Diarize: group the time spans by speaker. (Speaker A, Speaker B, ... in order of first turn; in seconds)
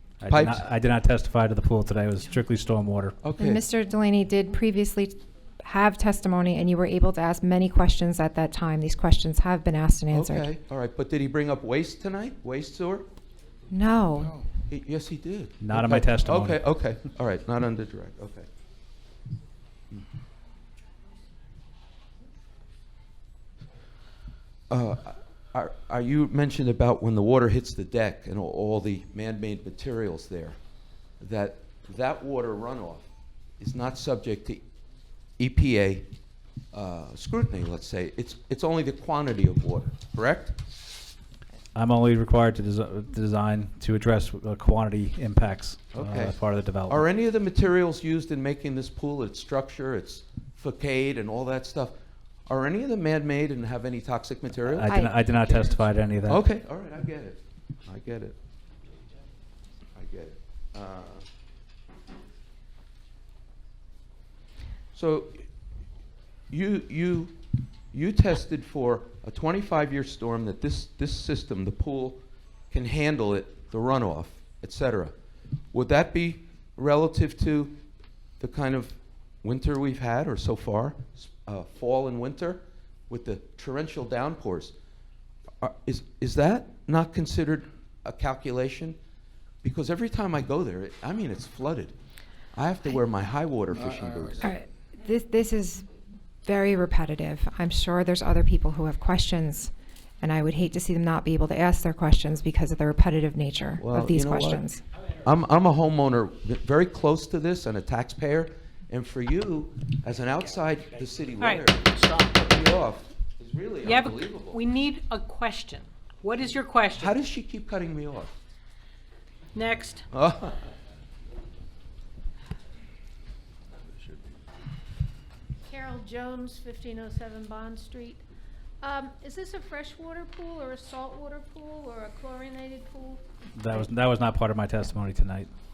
Speaker A: 0.2-3.2, 15.6-16.6, 41.8-47.0, 54.7-56.4, 133.6-135.5
Speaker B: 0.3-0.6, 3.2-3.6, 10.1-13.1, 14.7-18.5, 24.7-30.6, 31.2-33.1, 33.6-34.6, 35.4-36.1, 36.7-40.6, 45.9-51.9, 52.5-58.4, 60.0-61.2, 64.9-65.5, 66.5-67.4, 67.9-72.2, 72.7-75.1, 75.7-77.8, 78.4-84.7, 85.6-89.0, 89.6-91.9, 92.5-94.5, 103.8-104.7, 105.2-114.6, 117.0-118.3, 120.1-120.6
Speaker C: 3.4-10.5, 13.7-14.4, 54.9-55.4, 94.4-95.9, 96.5-104.8
Speaker D: 111.4-111.7, 113.8-117.2, 119.5-120.0
Speaker E: 125.7-128.2, 128.8-133.2